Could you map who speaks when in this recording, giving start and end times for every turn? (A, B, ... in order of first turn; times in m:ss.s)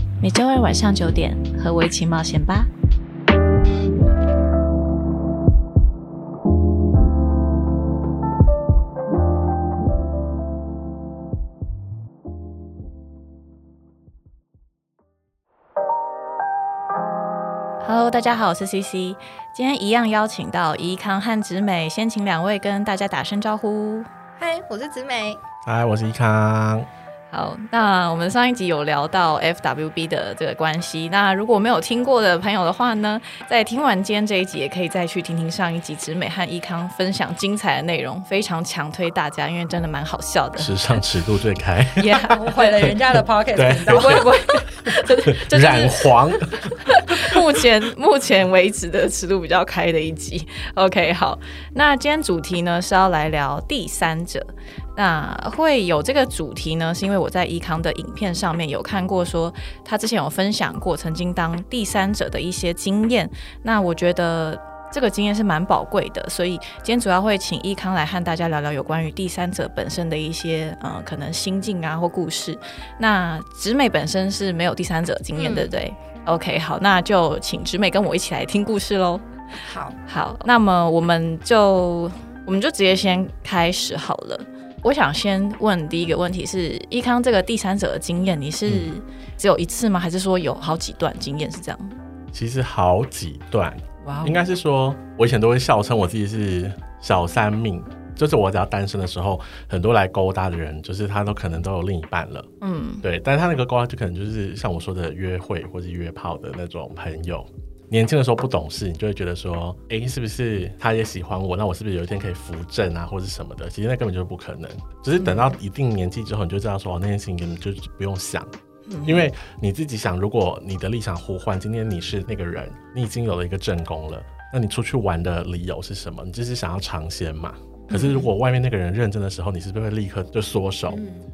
0:00.2-0:02.7 A
0:17.8-0:24.1 A
0:24.4-0:25.4 B
0:25.6-0:26.9 C
0:27.3-0:40.9 A
0:40.6-0:42.9 C
0:42.0-0:42.5 A
0:42.3-0:44.4 B
0:43.5-0:47.5 C
0:43.9-0:46.3 A
0:46.8-1:19.2 A
1:15.4-1:15.7 B
1:19.6-1:20.0 B
1:20.1-1:31.9 A
1:28.6-1:28.9 C
1:32.3-1:42.5 C
1:34.0-1:34.4 A
1:42.6-1:43.0 A
1:43.0-1:58.5 C
1:55.2-1:55.6 A
1:58.9-1:59.3 A
1:59.0-2:11.0 C
2:07.9-2:08.3 A
2:10.9-2:11.2 B